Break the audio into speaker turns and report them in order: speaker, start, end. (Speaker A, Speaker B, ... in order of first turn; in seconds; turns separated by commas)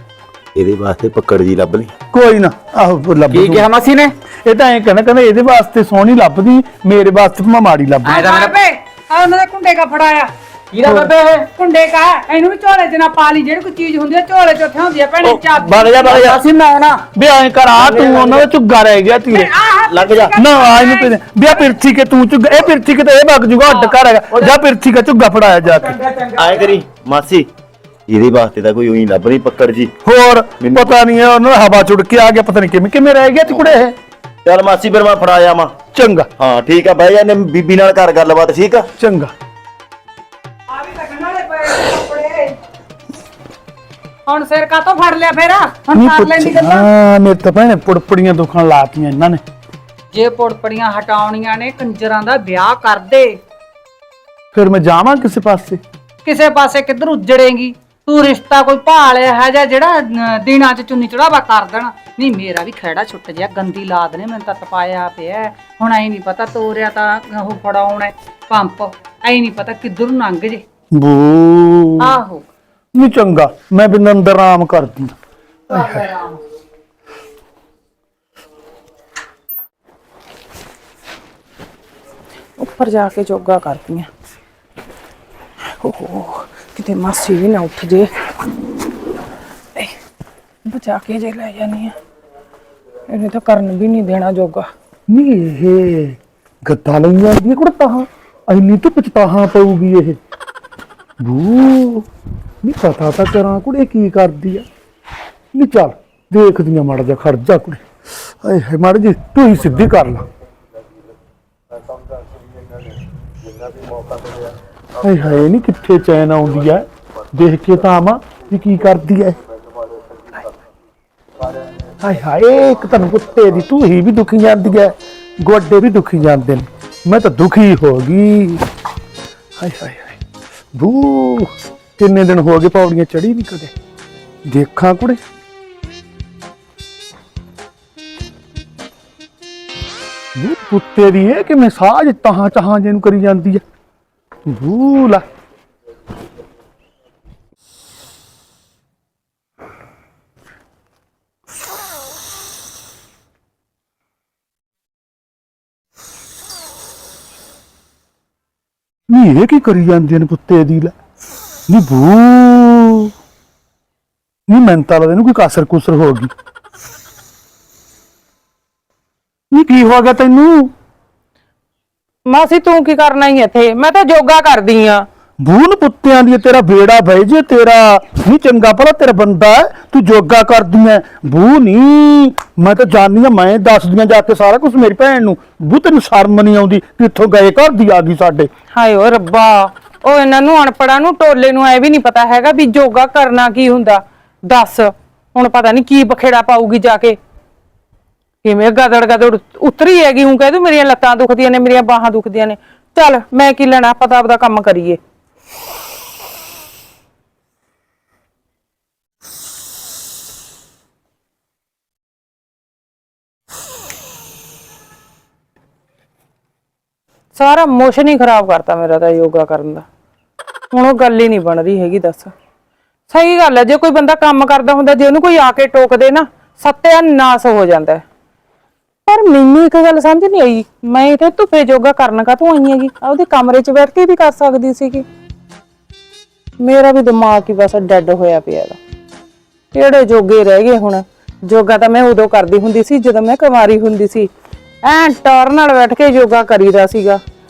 Speaker A: 0.6-1.9, Speaker B: 2.1-3.7, Speaker C: 3.3-4.1, Speaker B: 4.4-8.2, Speaker D: 8.0-10.3, Speaker C: 8.1-8.5, Speaker C: 10.7-11.4, Speaker B: 10.8-11.1, Speaker D: 11.5-16.5, Speaker A: 15.2-16.4, Speaker C: 16.2-17.0, Speaker B: 17.1-19.5, Speaker C: 18.0-18.4, Speaker D: 19.3-21.2, Speaker A: 19.9-20.3, Speaker B: 20.4-25.9, Speaker D: 23.7-23.9, Speaker C: 25.7-26.8, Speaker A: 26.4-27.5, Speaker A: 28.1-29.9, Speaker B: 30.0-33.9, Speaker A: 30.6-30.9, Speaker A: 34.4-35.7, Speaker B: 35.9-36.3, Speaker A: 36.4-38.9, Speaker B: 39.0-39.3, Speaker D: 40.7-42.5, Speaker D: 44.2-46.9, Speaker B: 45.9-49.4, Speaker D: 50.1-53.4, Speaker B: 54.5-55.8, Speaker D: 56.2-70.6, Speaker B: 70.9-72.2, Speaker D: 72.0-72.5, Speaker B: 72.9-75.1, Speaker D: 75.7-76.4, Speaker B: 75.7-76.0, Speaker E: 82.6-84.1, Speaker E: 85.8-88.1, Speaker E: 90.7-91.9, Speaker E: 93.1-94.7, Speaker B: 95.1-100.2, Speaker B: 101.2-102.1, Speaker B: 102.6-104.6, Speaker B: 105.5-107.8, Speaker B: 108.4-110.2, Speaker B: 115.0-119.4, Speaker B: 122.0-128.6, Speaker B: 129.6-130.2, Speaker B: 130.7-133.7, Speaker B: 134.5-135.2, Speaker B: 140.4-143.6, Speaker B: 144.5-145.2, Speaker B: 159.1-160.9, Speaker B: 161.7-163.1, Speaker B: 164.5-166.3, Speaker B: 169.5-170.7, Speaker E: 172.3-175.1, Speaker B: 175.4-188.5, Speaker E: 188.7-197.2, Speaker E: 198.4-205.0, Speaker E: 217.3-219.8, Speaker E: 220.7-222.3, Speaker E: 223.1-228.0, Speaker E: 229.1-235.1, Speaker E: 236.6-238.8, Speaker E: 239.7-244.3, Speaker E: 244.8-247.2